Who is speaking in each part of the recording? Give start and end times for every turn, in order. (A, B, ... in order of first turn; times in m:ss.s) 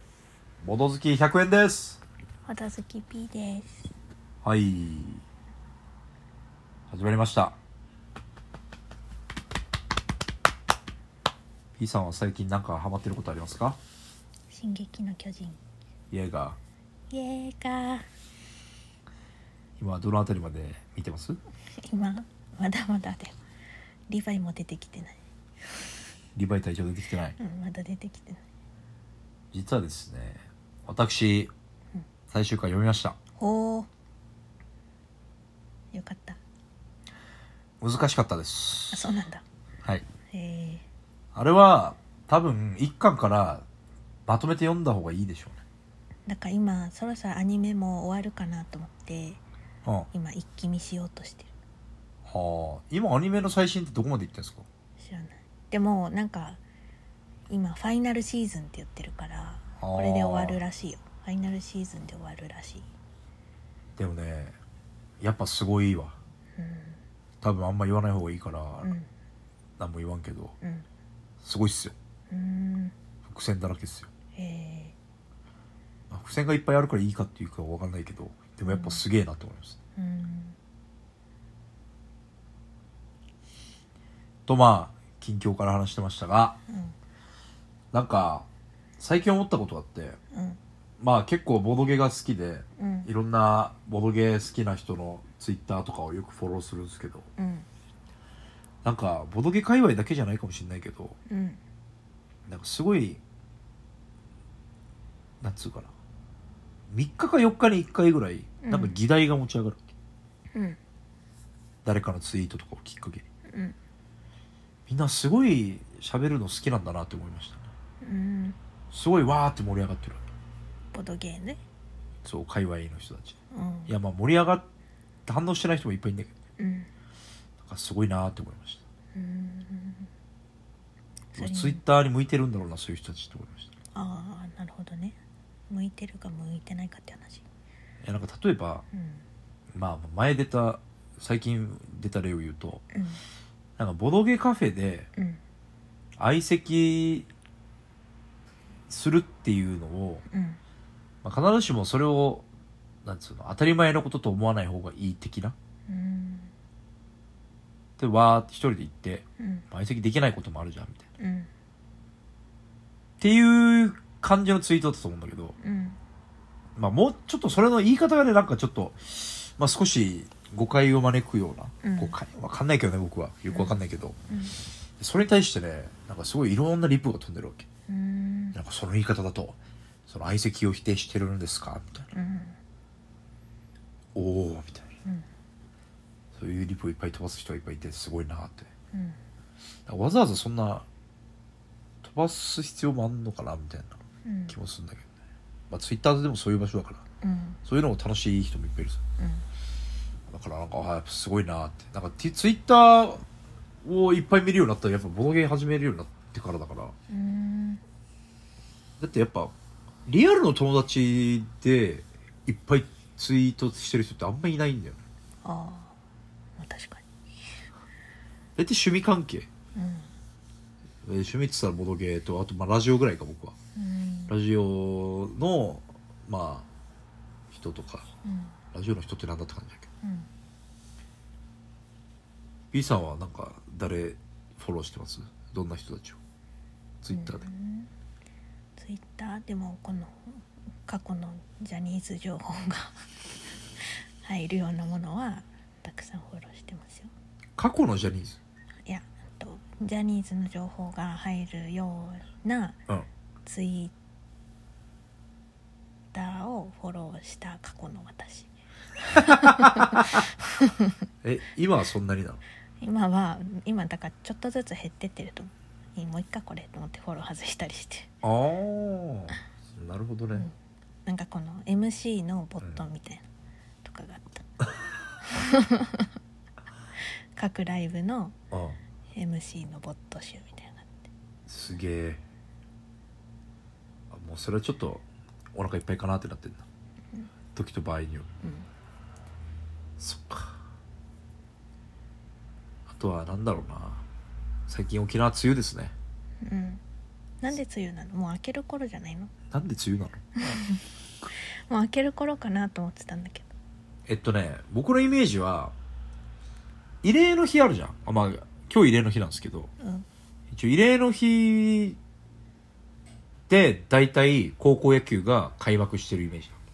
0:00.6-0:02.0 A
0:02.5-0:03.9 B
0:04.4-0:05.2 A
0:06.9-0:07.6 A
0:11.8-0:13.8 A
0:14.5-0:15.6 B
0:16.1-0:16.6 A
0:17.1-0:18.0 B
0:19.8-0:21.4 A
0:21.8-0:23.4 B
0:24.1-0:25.2 B
0:26.4-0:27.4 A
0:27.4-0:28.4 B
0:29.5-0:31.5 A
0:32.3-0:33.2 A
0:33.4-0:33.9 B
0:35.9-0:36.4 B
0:37.8-0:39.2 A
0:38.9-0:39.4 B
0:40.3-0:40.8 B
0:41.4-0:43.6 A
0:44.3-0:45.6 A
0:46.3-0:49.4 B
0:50.1-0:51.5 B
0:52.3-0:54.7 A
0:55.0-0:56.6 B
0:57.5-1:02.9 B
0:59.8-1:00.6 A
1:04.0-1:04.6 A
1:05.2-1:06.2 A
1:06.6-1:07.0 B
1:07.4-1:08.9 A
1:08.8-1:09.1 B
1:09.8-1:10.6 A
1:11.4-1:12.0 A
1:12.3-1:12.9 B
1:13.2-1:14.1 A
1:14.4-1:15.0 B
1:16.1-1:19.8 A
1:18.7-1:19.0 B
1:20.0-1:20.6 B
1:24.5-1:26.6 A
1:26.7-1:27.0 B
1:27.9-1:28.5 A
1:29.0-1:30.2 A
1:30.3-1:30.6 B
1:31.0-1:37.3 A
1:32.8-1:33.1 B
1:37.4-1:37.7 B
1:38.8-1:41.2 A
1:41.3-1:41.6 B
1:42.5-1:43.2 A
1:45.4-1:45.9 A
1:46.9-1:49.9 A
1:48.6-1:49.0 B
1:51.8-1:53.2 A
1:53.5-1:53.8 B
1:54.9-1:57.7 A
1:58.0-1:58.6 B
1:58.9-2:00.3 A
2:00.9-2:01.6 B
2:02.2-2:03.4 A
2:03.5-2:04.0 B
2:03.9-2:04.6 A
2:05.3-2:06.3 A
2:06.6-2:06.9 B
2:07.6-2:08.8 A
2:09.1-2:10.1 B
2:11.3-2:11.8 B
2:11.4-2:13.7 A
2:13.9-2:15.2 B
2:15.7-2:17.4 B
2:18.0-2:18.8 A
2:19.0-2:19.2 B
2:19.8-2:22.8 A
2:22.9-2:23.2 B
2:23.8-2:25.1 A
2:25.2-2:25.4 B
2:26.2-2:27.3 A
2:28.9-2:30.2 A
2:30.3-2:30.6 B
2:31.2-2:32.5 A
2:33.0-2:35.6 A
2:35.9-2:36.5 B
2:38.0-2:41.1 A
2:39.4-2:39.7 B
2:41.2-2:41.5 B
2:43.2-2:45.6 A
2:45.6-2:46.0 B
2:46.8-2:54.2 A
2:51.8-2:52.2 B
2:53.5-2:53.8 B
2:54.3-2:54.6 B
2:55.0-2:57.7 A
2:57.9-2:58.6 B
2:58.5-3:02.1 A
3:02.1-3:02.6 B
3:04.2-3:04.9 A
3:06.3-3:08.7 A
3:08.9-3:09.2 B
3:09.9-3:10.9 A
3:12.0-3:15.1 A
3:14.2-3:14.6 B
3:15.7-3:17.0 A
3:17.2-3:17.6 B
3:17.6-3:19.0 A
3:19.2-3:19.4 B
3:20.3-3:23.2 A
3:23.8-3:27.0 A
3:27.1-3:27.8 B
3:29.0-3:29.5 A
3:30.1-3:35.0 A
3:35.4-3:36.0 B
3:36.6-3:37.0 B
3:38.6-3:39.5 A
3:39.8-3:40.1 B
3:41.0-3:43.6 A
3:43.8-3:44.4 B
3:44.3-3:46.7 A
3:47.5-3:48.1 A
3:48.2-3:48.6 B
3:48.7-3:49.9 A
3:50.0-3:50.3 B
3:52.7-3:56.2 A
3:57.0-3:57.5 A
3:57.1-3:57.9 B
3:58.8-4:03.0 B
4:03.8-4:07.1 B
4:07.6-4:08.4 A
4:08.9-4:12.8 B
4:13.5-4:13.9 B
4:16.1-4:18.5 B
4:19.0-4:20.9 B
4:19.3-4:20.2 A
4:21.2-4:22.4 A
4:22.8-4:28.1 B
4:28.2-4:30.5 A
4:31.1-4:33.2 B
4:33.8-4:34.5 B
4:35.2-4:36.1 B
4:37.4-4:38.4 B
4:38.5-4:38.8 A
4:39.2-4:41.0 B
4:41.5-4:42.2 A
4:44.1-4:46.7 A
4:47.5-4:48.3 A
4:50.0-4:50.6 A
4:52.9-4:54.0 A
4:54.7-4:56.0 A
4:56.4-4:56.8 B
4:57.4-4:59.3 B
4:59.5-5:00.2 A
5:00.4-5:03.5 B
5:04.1-5:05.7 A
5:07.0-5:09.7 A
5:09.8-5:10.1 B
5:10.5-5:12.0 A
5:13.5-5:16.6 A